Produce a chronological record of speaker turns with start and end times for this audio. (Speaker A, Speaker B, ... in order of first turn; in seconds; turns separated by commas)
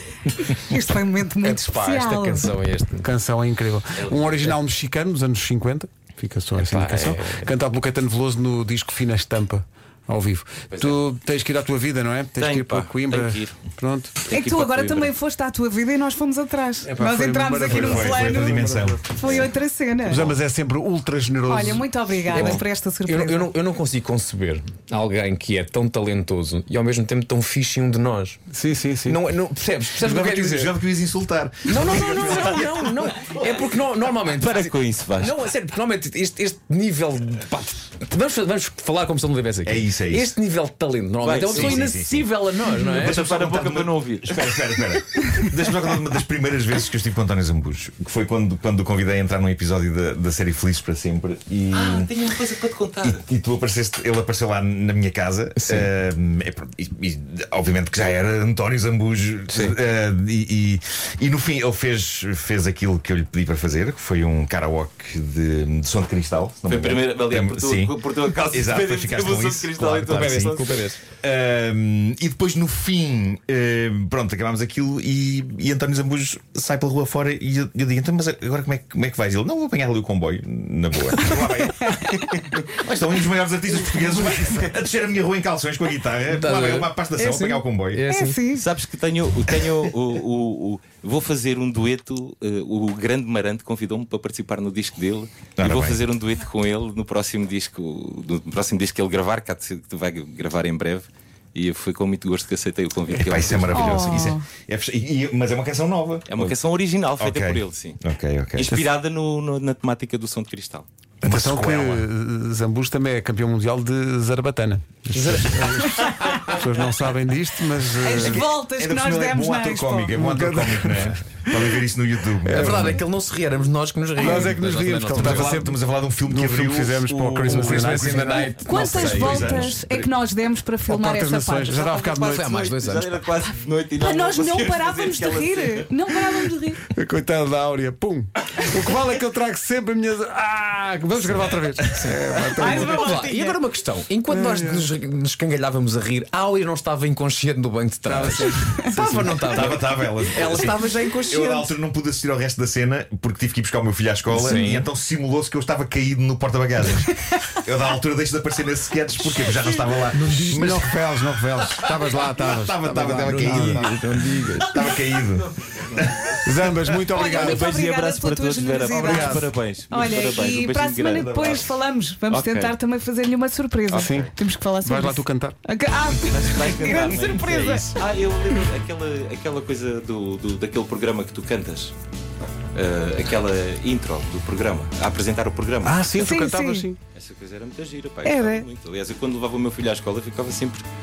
Speaker A: 0.4-2.5, Speaker B: 1.4-3.1, Speaker C: 3.0-14.2, Speaker D: 4.0-4.5, Speaker B: 6.5-7.5, Speaker D: 10.7-11.0, Speaker D: 12.4-13.6, Speaker D: 14.3-15.1, Speaker A: 14.3-20.4, Speaker C: 16.8-19.0, Speaker E: 17.7-19.5, Speaker C: 20.1-21.9, Speaker A: 21.5-23.5, Speaker B: 22.3-28.4, Speaker D: 22.3-22.6, Speaker C: 28.5-29.2, Speaker B: 29.0-30.8, Speaker E: 30.0-32.9, Speaker B: 31.7-43.4, Speaker D: 34.3-35.4, Speaker E: 39.6-40.4, Speaker D: 41.2-42.0, Speaker E: 41.4-42.3, Speaker D: 42.7-44.8, Speaker E: 42.9-52.1, Speaker D: 51.7-53.2, Speaker E: 53.0-70.6, Speaker B: 55.6-55.9, Speaker B: 59.5-59.8, Speaker D: 66.7-70.8, Speaker B: 70.0-71.0, Speaker E: 71.2-88.0, Speaker B: 86.3-88.5, Speaker A: 88.1-88.7, Speaker D: 88.5-104.3, Speaker E: 95.6-96.0, Speaker E: 103.2-106.5, Speaker A: 103.7-104.4, Speaker D: 106.3-108.0, Speaker E: 107.2-108.7, Speaker D: 108.5-110.9, Speaker E: 111.2-112.1, Speaker C: 111.2-118.4, Speaker B: 115.2-116.6, Speaker A: 118.0-120.1, Speaker E: 118.1-123.0, Speaker C: 120.2-121.6, Speaker C: 122.4-123.0, Speaker B: 122.5-125.6, Speaker C: 124.2-128.4, Speaker E: 125.2-130.0, Speaker B: 127.4-129.8, Speaker A: 128.3-131.8, Speaker C: 130.9-132.5, Speaker D: 131.7-136.5, Speaker B: 132.2-133.3, Speaker A: 134.0-136.8, Speaker C: 136.9-143.2, Speaker B: 141.2-151.7, Speaker A: 142.6-143.6, Speaker C: 144.3-144.9, Speaker C: 148.1-149.7, Speaker E: 149.4-166.3, Speaker B: 154.3-154.9, Speaker B: 160.1-160.7, Speaker C: 160.3-163.9, Speaker B: 163.2-164.8, Speaker D: 164.8-166.4, Speaker C: 166.4-167.7, Speaker D: 167.1-171.7, Speaker A: 167.2-178.0, Speaker C: 168.9-169.5, Speaker E: 171.1-171.7, Speaker D: 172.3-172.8, Speaker D: 173.9-174.3, Speaker C: 173.9-175.6, Speaker D: 176.1-181.9, Speaker D: 182.8-186.2, Speaker C: 185.8-187.0, Speaker A: 186.2-186.9, Speaker D: 187.1-190.9, Speaker A: 188.2-188.7